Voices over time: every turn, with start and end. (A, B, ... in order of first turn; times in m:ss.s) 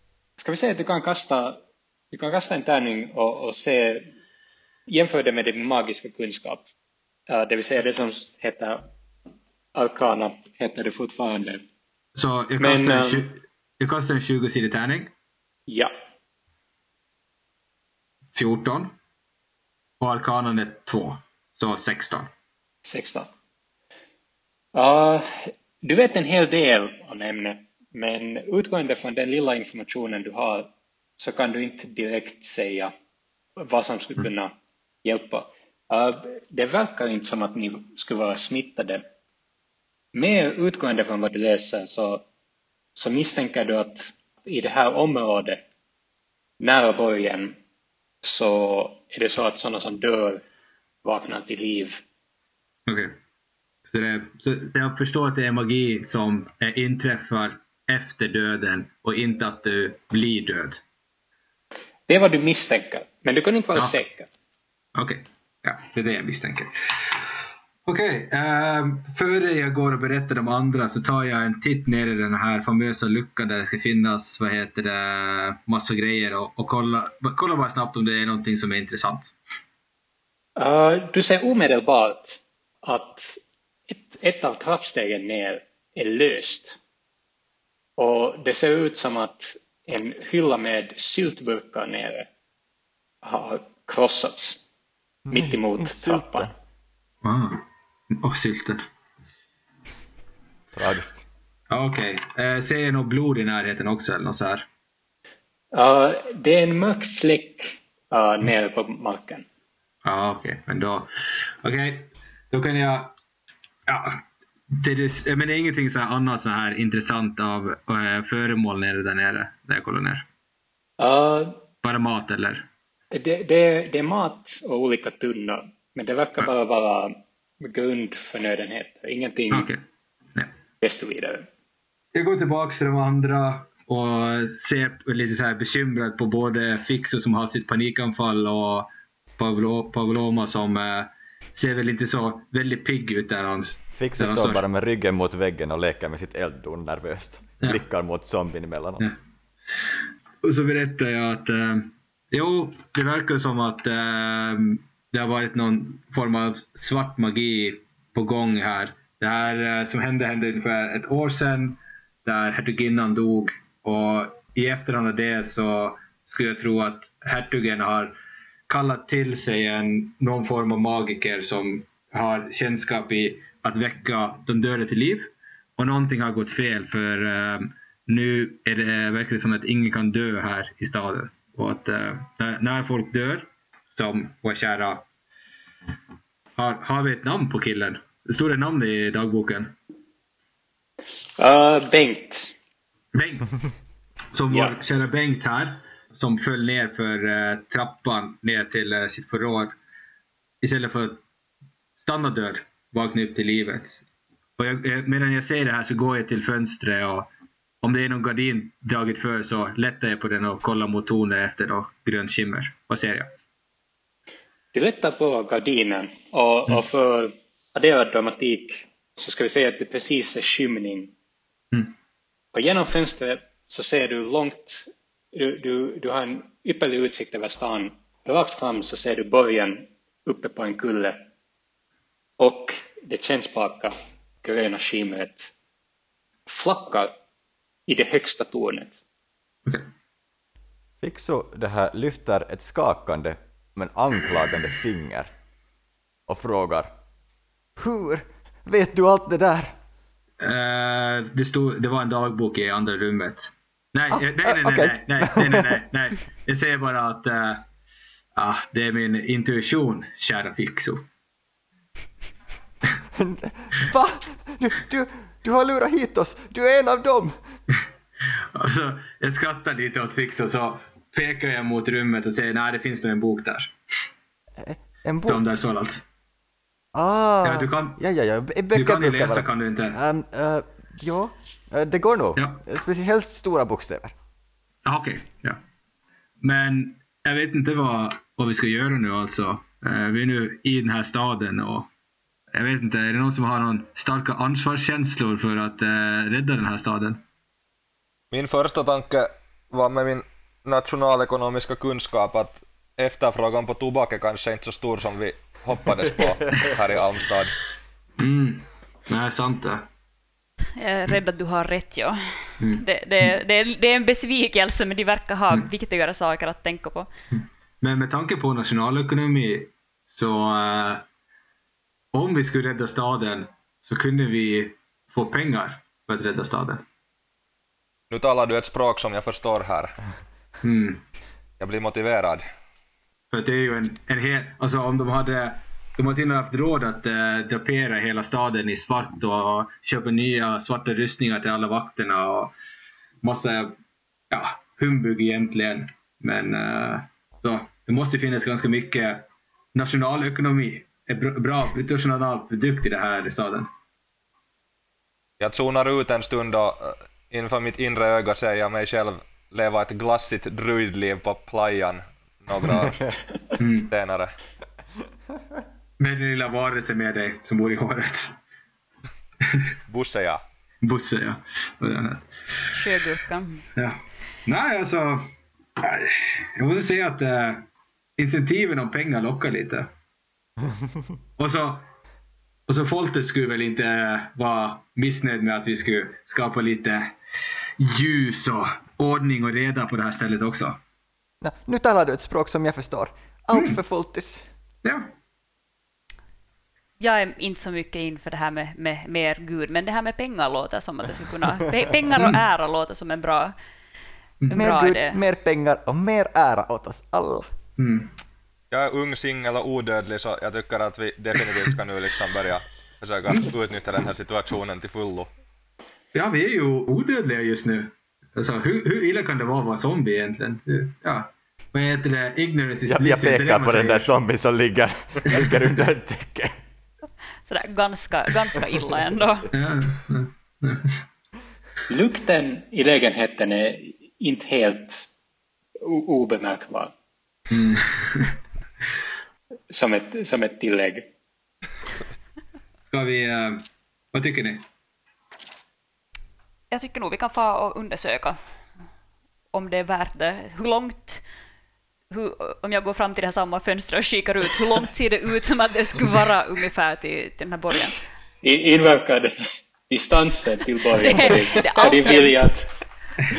0:00.4-0:01.6 A
0:02.1-0:04.1 A
0:04.9-0:06.7 A
0:07.3-0:08.9 A
0:09.8-0:11.6 A
0:12.2-0:15.1 B
0:12.6-0:13.2 A
0:15.7-0:15.9 A
0:18.3-0:19.0 B
0:20.0-0:22.3 B
0:22.8-0:23.3 A
0:24.8-0:32.9 A
0:33.6-0:34.5 A
0:35.0-0:39.0 A
0:40.1-0:42.2 A
0:43.0-0:45.6 A
0:46.6-0:47.6 A
0:48.2-0:50.4 A
0:51.0-0:52.0 A
0:52.9-0:53.2 B
0:53.9-1:00.8 B
1:02.1-1:04.3 A
1:05.0-1:07.2 B
1:07.9-1:19.3 B
1:20.6-1:26.8 A
1:28.0-1:32.3 A
1:33.2-1:34.6 A
1:35.3-1:36.5 C
1:35.3-1:36.5 A
1:37.2-1:38.8 B
1:40.7-1:41.3 C
1:41.7-1:44.7 B
1:45.7-1:49.5 A
1:50.0-1:53.2 B
1:53.9-2:00.3 B
2:01.0-2:01.7 A
2:01.8-2:02.7 B
2:03.1-2:09.7 A
2:09.5-2:09.8 B
2:10.8-2:11.5 A
2:12.1-2:24.6 B
2:23.9-2:29.1 C
2:29.8-2:48.2 B
2:48.7-3:05.1 B
3:06.6-3:09.8 B
3:11.4-3:12.6 A
3:13.1-3:13.6 B
3:14.3-3:19.8 B
3:14.5-3:14.8 A
3:20.6-3:21.2 B
3:22.0-3:24.0 B
3:24.6-3:27.3 B
3:27.8-3:33.3 B
3:34.7-3:41.1 A
3:42.5-3:51.3 A
3:52.4-3:55.5 A
3:56.5-3:57.1 A
3:57.9-3:59.0 A
4:01.0-4:05.3 C
4:06.3-4:06.9 C
4:07.8-4:09.8 C
4:10.4-4:17.7 B
4:14.1-4:15.8 C
4:18.4-4:21.1 B
4:23.1-4:27.4 C
4:28.3-4:33.7 B
4:34.6-4:35.5 C
4:35.2-4:36.1 B
4:36.9-4:44.1 C
4:37.4-4:38.0 B
4:38.7-4:40.0 B
4:42.4-4:42.6 B
4:44.8-4:45.6 B
4:46.4-4:51.9 B
4:52.5-4:57.2 B
4:58.3-5:07.6 D
5:08.2-5:09.8 B
5:10.8-5:17.1 E
5:17.8-5:21.0 B
5:22.1-5:26.8 B
5:28.1-5:30.0 D
5:30.6-5:31.0 B
5:31.6-5:32.5 D
5:33.3-5:42.5 B
5:43.2-5:43.8 B
5:44.3-5:53.7 B
5:55.4-6:03.2 D
6:03.6-6:03.9 B
6:03.8-6:04.4 D
6:06.0-6:08.4 B
6:09.9-6:10.4 D
6:10.8-6:12.3 B
6:12.7-6:13.7 E
6:13.8-6:19.9 B
6:21.4-6:21.9 B
6:22.7-6:27.2 B
6:27.8-6:30.8 B
6:31.4-6:34.5 C
6:34.8-6:35.1 B
6:37.0-6:43.6 E
6:44.4-6:44.7 B
6:44.5-6:45.2 E
6:44.5-6:47.5 C
6:47.8-6:48.1 B
6:48.7-6:55.3 D
6:56.1-7:04.1 B
7:02.8-7:06.6 C
7:07.5-7:09.5 E
7:09.5-7:11.0 B
7:11.9-7:15.1 A
7:15.8-7:16.9 A
7:17.5-7:18.3 B
7:19.7-7:21.1 A
7:22.9-7:24.6 B
7:26.7-7:28.4 E
7:29.5-7:31.2 E
7:32.1-7:38.0 E
7:38.4-7:39.3 A
7:39.9-7:42.7 A
7:41.0-7:42.5 E